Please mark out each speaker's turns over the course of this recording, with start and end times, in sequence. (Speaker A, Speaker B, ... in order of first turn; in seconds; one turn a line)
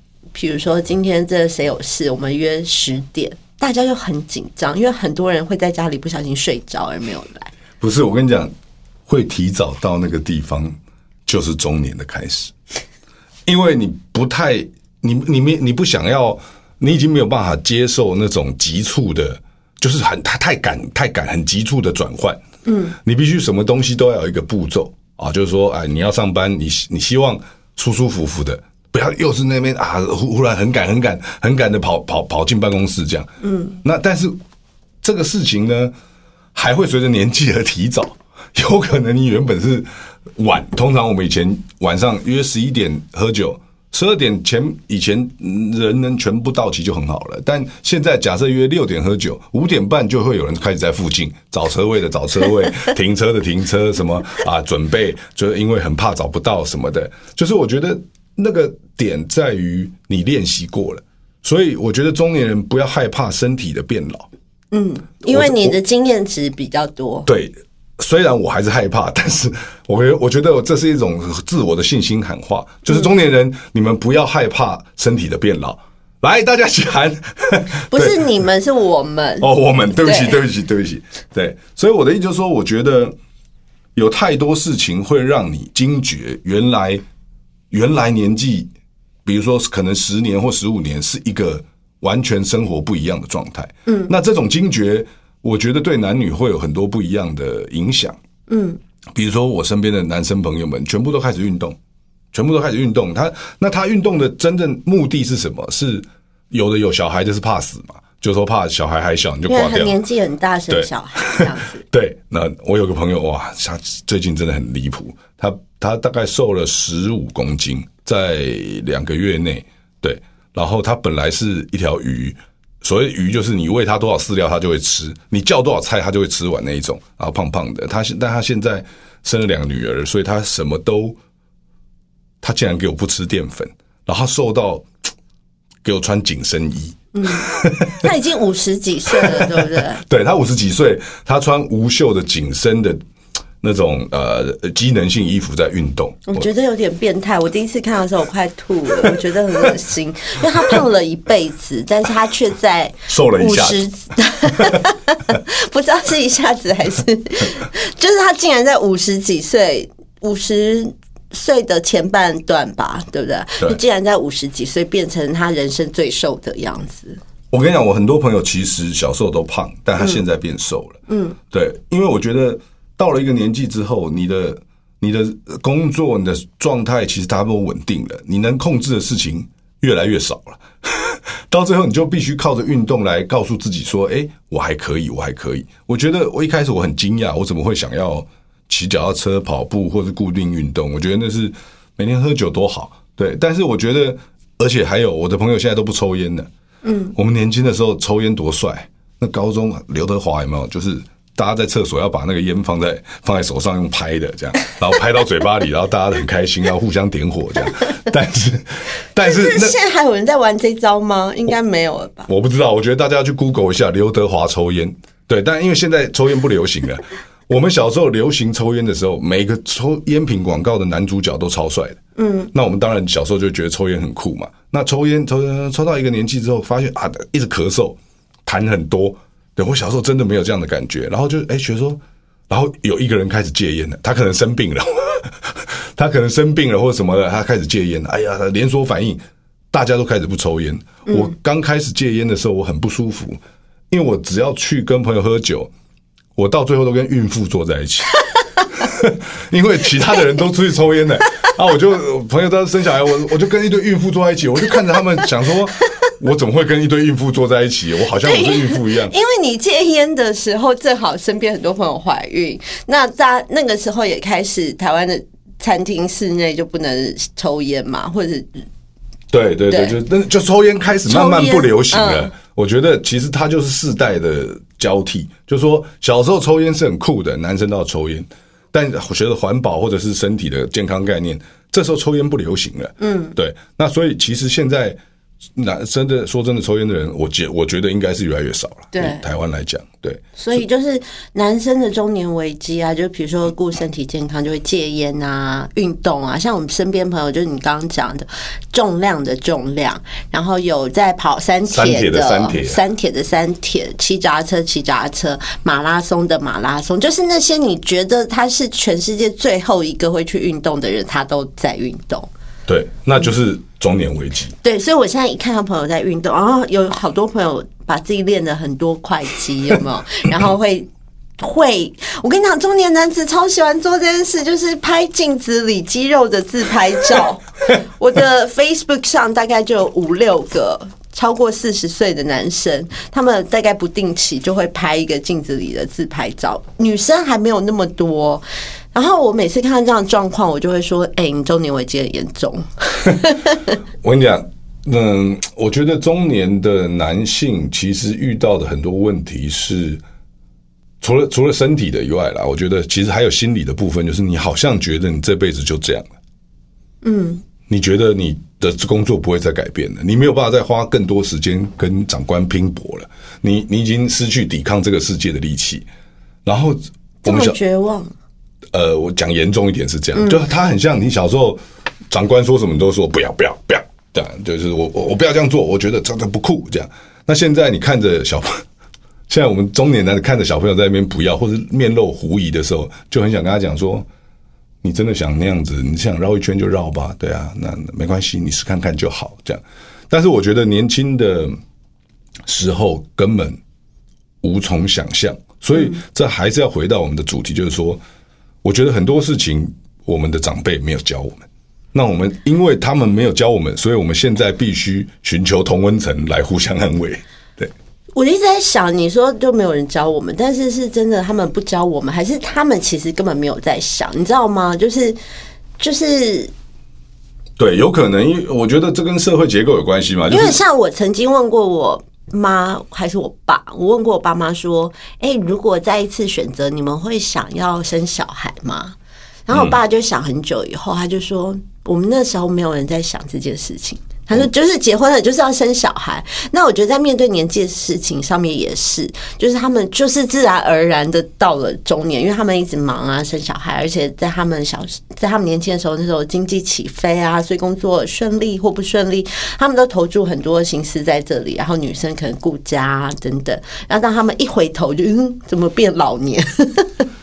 Speaker A: 0.3-7.5
Speaker B: 7.8-8.5
Speaker B: 9.1-12.5
Speaker B: 13.5-22.4
Speaker A: 22.7-22.9
Speaker B: 22.9-34.3
Speaker A: 33.4-33.8
Speaker B: 35.0-35.9
Speaker B: 36.5-64.3
Speaker A: 64.7-67.3
Speaker B: 65.3-65.8
Speaker B: 67.3-78.2
Speaker A: 77.9-80.4
Speaker B: 79.4-83.2
Speaker B: 84.0-87.0
Speaker B: 87.7-88.7
Speaker B: 89.2-98.2
Speaker A: 93.9-94.1
Speaker A: 98.5-98.8
Speaker B: 99.2-101.8
Speaker B: 102.3-110.0
Speaker A: 109.5-111.8
Speaker B: 110.7-131.2
Speaker B: 132.4-134.9
Speaker B: 135.8-138.1
Speaker A: 137.1-137.5
Speaker A: 138.0-140.0
Speaker B: 139.1-143.0
Speaker B: 143.6-146.5
Speaker A: 146.3-167.2
Speaker B: 153.1-153.8
Speaker B: 167.5-171.0
Speaker A: 171.1-171.4
Speaker B: 171.5-196.5
Speaker A: 196.8-197.1
Speaker B: 197.2-209.8
Speaker A: 209.2-212.3
Speaker B: 212.3-222.0
Speaker A: 222.2-222.5
Speaker B: 222.5-243.4
Speaker B: 243.9-245.7
Speaker B: 246.4-248.2
Speaker B: 248.7-259.1
Speaker A: 258.2-268.6
Speaker B: 269.3-285.0
Speaker A: 269.7-269.9
Speaker A: 271.1-272.3
Speaker A: 283.0-283.4
Speaker B: 285.6-290.6
Speaker A: 288.9-289.2
Speaker A: 290.4-312.3
Speaker B: 301.7-302.8
Speaker B: 312.7-314.5
Speaker A: 314.6-320.9
Speaker A: 321.4-343.8
Speaker B: 344.0-350.0
Speaker B: 351.0-356.1
Speaker A: 357.0-357.4
Speaker B: 357.7-365.9
Speaker B: 366.4-367.6
Speaker A: 367.2-368.1
Speaker B: 368.7-378.6
Speaker A: 370.1-370.4
Speaker B: 379.3-384.1
Speaker B: 384.8-391.6
Speaker B: 392.5-393.6
Speaker B: 394.4-398.0
Speaker B: 398.6-407.7
Speaker A: 408.1-415.2
Speaker A: 415.8-416.5
Speaker B: 417.6-420.6
Speaker A: 420.3-429.0
Speaker A: 429.5-457.1
Speaker B: 429.5-429.8